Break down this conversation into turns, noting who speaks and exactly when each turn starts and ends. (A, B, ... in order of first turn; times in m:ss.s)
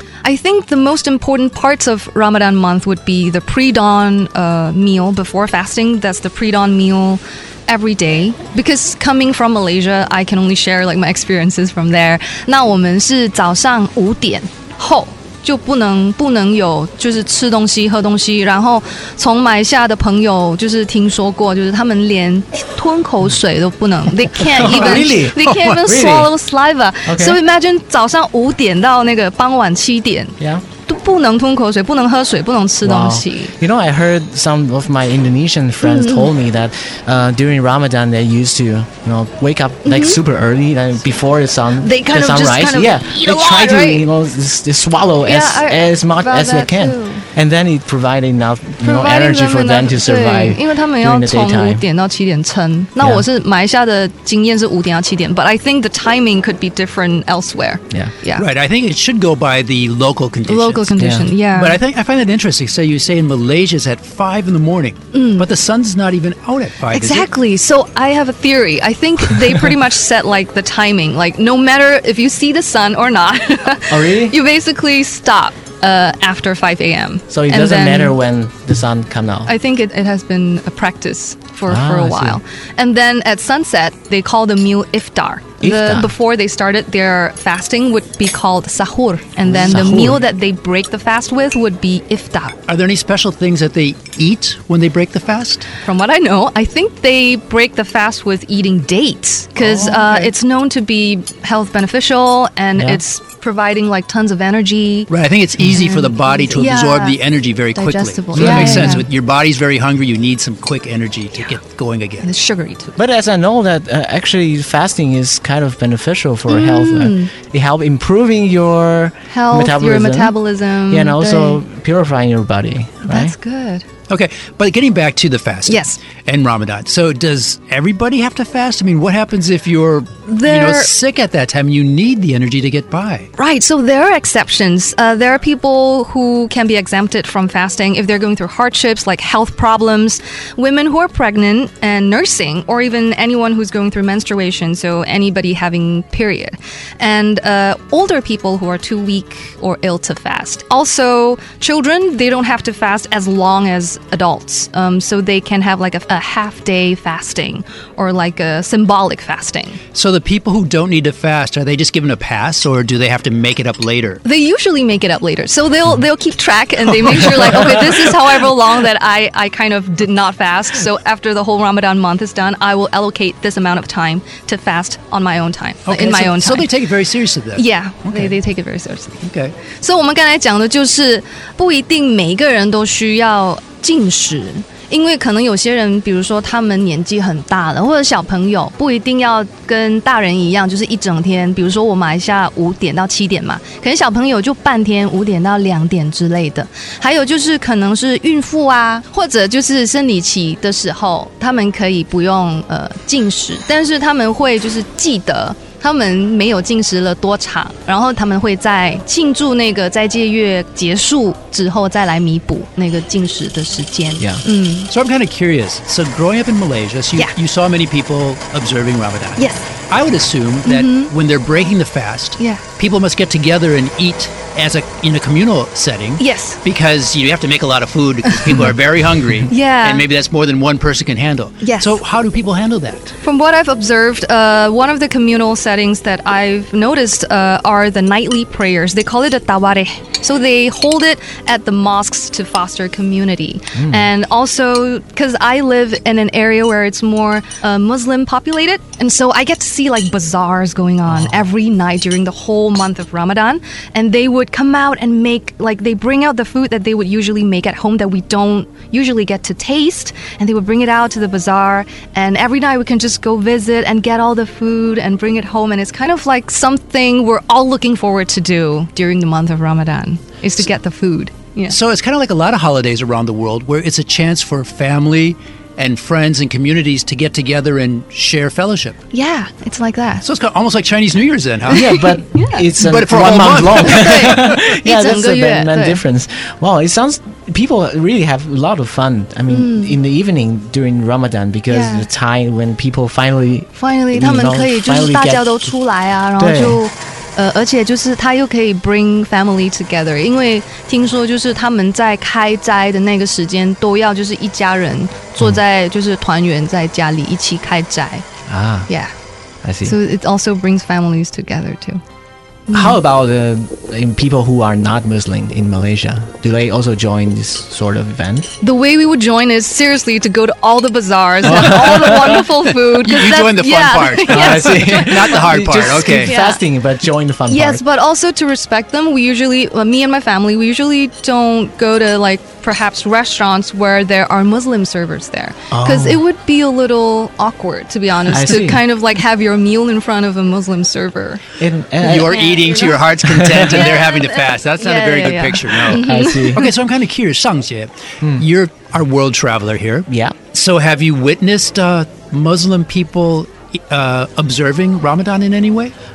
0:00.2-0:33.5 A
0:24.4-0:26.3 B
0:27.0-0:27.4 B
0:30.4-0:30.6 B
0:32.8-0:51.8 B
0:35.8-0:36.3 A
0:39.8-0:40.2 A
0:41.8-0:44.1 A
0:45.2-0:47.2 A
0:48.8-0:58.4 A
0:53.0-0:53.2 B
0:58.4-1:00.9 C
1:00.5-1:01.8 A
1:01.0-1:01.3 B
1:01.4-1:07.3 C
1:05.1-1:05.4 A
1:06.9-1:18.2 A
1:13.9-1:14.4 B
1:17.3-1:19.5 B
1:19.4-1:32.6 A
1:21.7-1:22.4 B
1:25.6-1:26.1 B
1:29.4-1:30.2 B
1:32.7-1:35.7 C
1:35.8-1:45.1 A
1:39.6-1:40.3 C
1:42.8-1:43.0 B
1:45.1-1:52.3 C
1:45.6-1:47.2 A
1:47.7-1:49.0 A
1:48.3-1:49.0 B
1:52.2-1:53.0 A
1:53.0-2:00.4 B
1:56.5-1:57.3 A
1:59.3-2:01.6 A
2:00.9-2:03.3 B
2:03.0-2:03.8 A
2:04.1-2:13.3 C
2:05.7-2:06.0 A
2:10.2-2:10.9 A
2:13.4-2:39.8 A
2:39.9-2:44.2 C
2:44.2-2:56.7 A
2:47.1-2:48.1 C
2:55.8-2:58.4 C
2:57.5-3:34.9 A
2:59.2-2:59.5 C
3:34.9-3:53.1 C
3:39.4-3:39.7 A
3:40.6-3:41.1 A
3:46.2-3:46.6 A
3:48.3-3:48.6 A
3:49.5-3:50.0 A
3:51.6-3:52.0 A
3:53.2-4:31.8 A
4:03.8-4:04.1 B
4:11.1-4:11.4 B
4:31.7-4:39.0 C
4:39.1-4:40.2 A
4:40.2-4:41.9 C
4:41.7-4:42.6 A
4:41.7-4:55.7 B
4:42.8-4:44.5 C
4:43.7-4:46.0 A
4:49.5-4:50.0 A
4:51.7-4:52.1 A
4:53.8-5:08.2 A
4:56.4-4:56.8 B
5:08.5-5:08.9 B
5:08.9-5:09.1 A
5:09.6-5:10.0 B
5:09.8-5:12.0 A
5:12.7-5:13.0 A
5:12.7-5:18.5 B
5:18.6-5:26.6 A
5:21.4-5:22.4 B
5:22.9-5:26.3 C
5:24.3-5:27.8 B
5:27.5-5:41.4 A
5:35.7-5:36.2 B
5:38.3-5:38.8 B
5:41.6-5:42.5 B
5:42.0-5:55.9 C
5:42.1-5:46.7 A
5:43.2-5:43.8 B
5:45.9-5:46.6 B
5:50.1-5:50.4 B